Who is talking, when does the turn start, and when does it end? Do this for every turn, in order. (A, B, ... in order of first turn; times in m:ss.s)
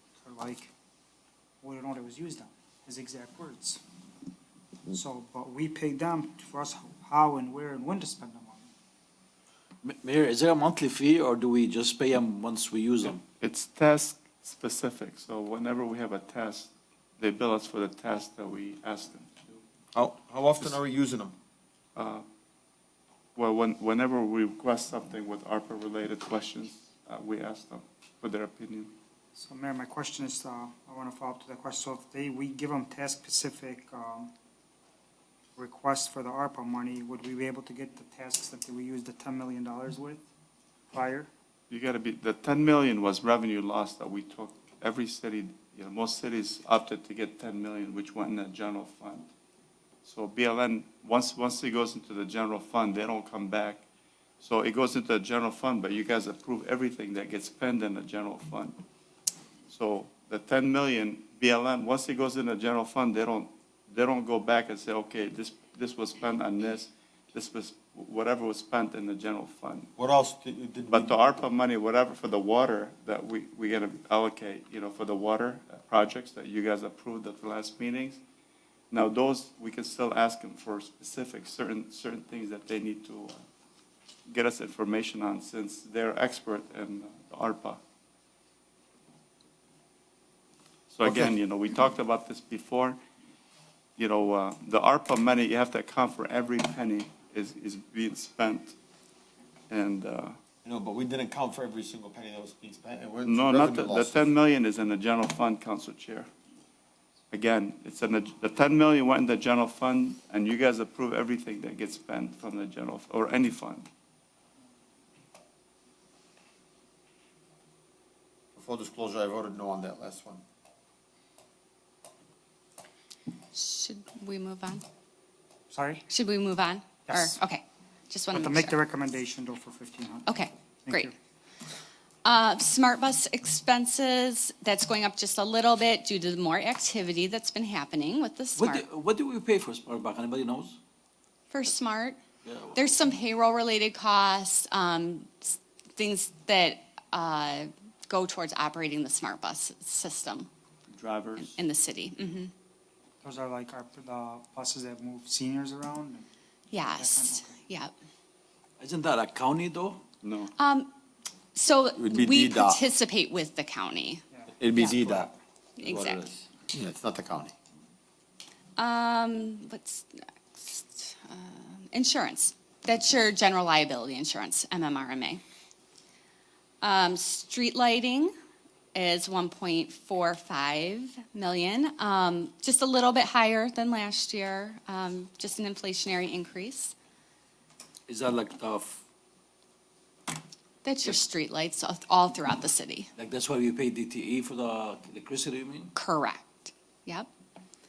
0:00.2-0:00.7 A
0:01.6-0:03.8 A
0:04.9-0:08.7 A
0:09.8-0:13.2 B
0:13.4-0:19.6 C
0:20.0-0:21.4 D
0:22.0-0:22.2 C
0:23.4-0:28.9 C
0:29.4-0:34.3 A
0:35.6-0:40.3 A
0:40.9-0:41.3 A
0:41.7-0:49.3 C
0:50.0-0:53.8 C
0:54.4-0:58.8 C
0:59.7-1:09.9 C
1:10.0-1:11.2 D
1:10.9-1:18.2 C
1:18.9-1:23.4 C
1:24.3-1:27.8 C
1:30.9-1:33.0 C
1:31.0-1:31.4 D
1:34.0-1:38.8 C
1:39.7-1:40.4 C
1:40.6-1:44.3 D
1:43.3-1:46.3 C
1:47.3-1:53.9 C
1:58.6-2:00.4 D
2:03.5-2:04.8 E
2:05.7-2:06.0 A
2:06.1-2:08.7 E
2:07.1-2:07.4 A
2:08.3-2:10.4 A
2:10.3-2:11.1 E
2:10.9-2:11.1 A
2:12.2-2:18.8 E
2:18.6-2:20.8 B
2:21.5-2:22.2 E
2:22.4-2:22.9 B
2:22.7-2:30.5 E
2:30.9-2:31.5 C
2:31.4-2:32.5 E
2:33.2-2:37.6 A
2:36.7-2:37.9 E
2:38.8-2:40.0 B
2:40.2-2:40.5 C
2:40.6-2:40.9 E
2:41.6-2:44.2 E
2:42.0-2:42.8 D
2:44.6-2:47.6 D
2:44.8-2:45.2 E
2:45.8-2:46.3 E
2:48.8-2:55.4 E
2:56.8-2:58.3 E
2:58.9-3:07.0 E
3:08.1-3:09.0 B
3:10.8-3:13.1 E
3:13.2-3:15.9 B
3:16.0-3:17.3 E